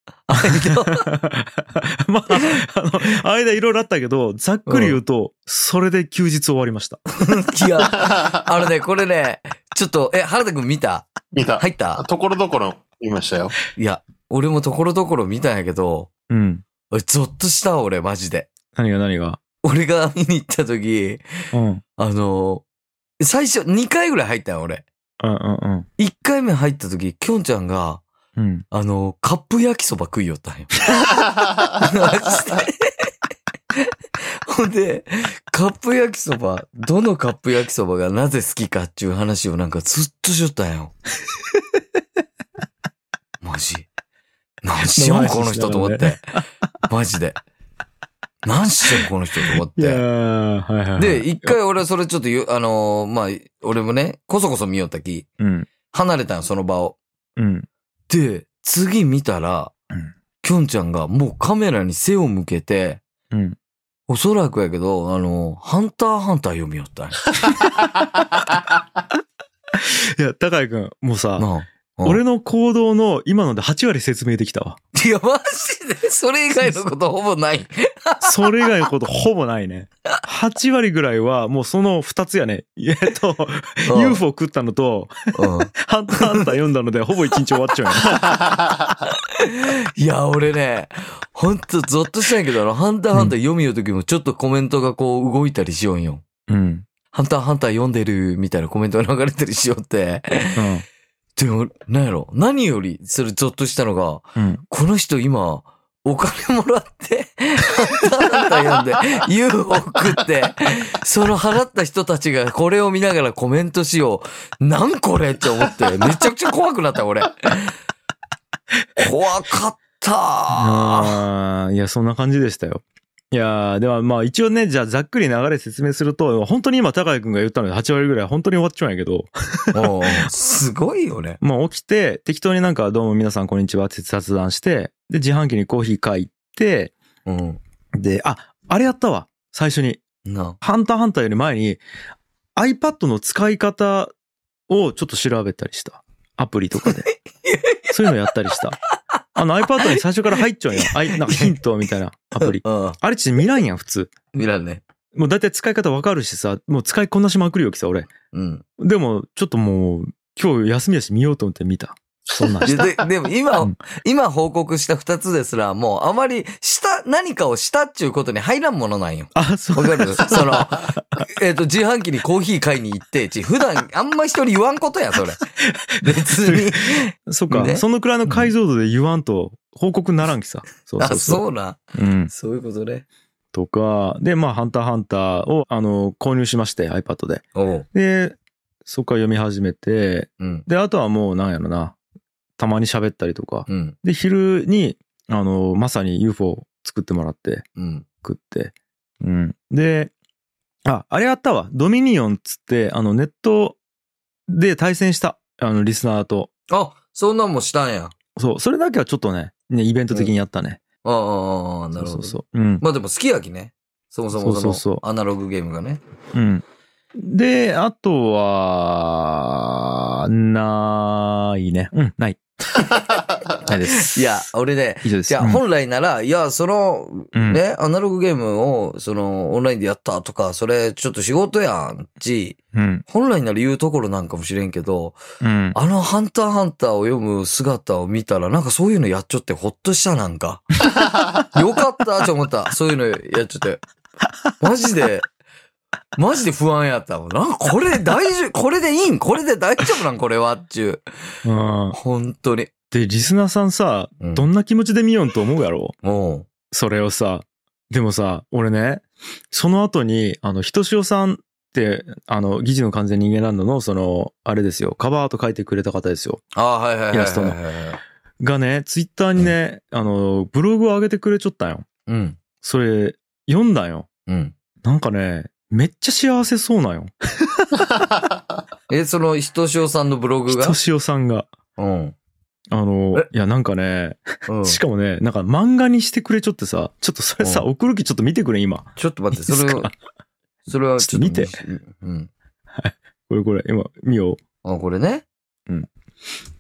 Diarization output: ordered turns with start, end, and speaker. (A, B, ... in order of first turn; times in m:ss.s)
0:00.3-0:01.1 A
0:00.4-0:07.0 B
0:02.3-0:02.6 A
0:04.7-0:05.0 A
0:07.2-0:12.0 A
0:08.0-0:08.3 C
0:11.3-0:13.6 C
0:13.8-0:16.1 A
0:16.3-0:16.6 B
0:16.9-0:18.5 A
0:18.7-0:19.4 B
0:19.6-0:21.2 A
0:21.5-0:21.8 B
0:22.0-0:22.6 A
0:23.2-0:24.8 A
0:25.2-0:25.9 B
0:26.0-0:28.0 A
0:28.4-0:28.6 B
0:28.7-0:33.1 A
0:33.7-0:40.9 A
0:43.4-0:43.9 A
0:44.6-0:47.4 A
0:44.9-0:46.4 B
0:48.4-0:50.0 A
0:48.9-0:51.6 B
0:51.0-0:55.3 A
0:55.4-0:55.7 B
0:55.9-0:57.0 A
0:57.4-0:57.7 B
0:58.1-0:59.7 A
1:00.4-1:03.0 A
1:04.1-1:07.2 A
1:09.8-1:11.5 B
1:11.4-1:12.2 A
1:12.0-1:14.8 B
1:14.9-1:18.4 A
1:18.2-1:28.3 B
1:23.9-1:24.2 A
1:25.3-1:26.5 A
1:27.9-1:36.2 A
1:36.5-1:36.8 B
1:37.1-1:40.7 A
1:40.6-1:40.8 B
1:41.4-1:57.8 A
1:44.4-1:44.6 B
1:59.0-2:01.2 A
2:00.5-2:10.3 B
2:09.7-2:11.4 A
2:11.4-2:17.0 B
2:17.3-2:17.6 A
2:18.0-2:20.0 B
2:20.2-2:20.6 A
2:20.6-2:21.8 B
2:22.6-2:24.1 B
2:24.7-2:27.1 B
2:26.9-2:28.0 A
2:27.9-2:28.8 B
2:29.4-2:34.1 B
2:30.8-2:31.6 A
2:32.4-2:33.0 A
2:34.3-2:34.8 A
2:35.2-2:38.1 B
2:38.3-2:38.6 A
2:38.8-2:42.9 B
2:42.6-2:55.4 A
2:49.4-2:51.2 B
2:55.9-3:02.3 B
2:56.0-2:58.5 A
3:01.0-3:03.0 A
3:03.5-3:12.0 B
3:07.6-3:07.9 A
3:10.4-3:10.6 A
3:12.6-3:17.6 B
3:13.7-3:14.0 A
3:17.8-3:18.0 A
3:18.2-3:20.1 B
3:20.9-3:23.8 B
3:24.5-3:26.5 B
3:26.7-3:28.1 A
3:28.4-3:30.8 B
3:31.0-3:36.0 A
3:32.0-3:32.8 B
3:34.4-3:35.0 B
3:36.3-3:36.6 B
3:37.2-3:42.9 B
3:43.6-3:44.2 B
3:44.0-3:55.2 A
3:45.0-3:45.6 B
3:47.3-3:47.6 B
3:52.8-3:53.0 B
3:55.4-3:55.8 B
3:55.7-4:00.8 A
4:01.4-4:03.8 A
4:04.6-4:05.3 A
4:06.2-4:11.0 A
4:11.4-4:12.0 B
4:11.9-4:12.7 A
4:12.9-4:16.0 B
4:14.2-4:14.5 A
4:16.0-4:16.5 A
4:16.7-4:26.4 B
4:26.5-4:28.0 A
4:27.1-4:27.6 B
4:28.4-4:31.9 B
4:32.1-4:32.4 A
4:32.6-4:34.1 B
4:34.3-4:34.5 A
4:34.8-4:38.1 B
4:38.9-4:40.8 A
4:40.5-4:41.5 B
4:41.8-4:42.2 A
4:42.7-4:50.0 B
4:44.5-4:44.8 A
4:49.0-4:49.9 A
4:50.7-4:52.3 A
4:51.0-4:51.6 B
4:52.8-4:54.4 B
4:54.6-4:55.3 A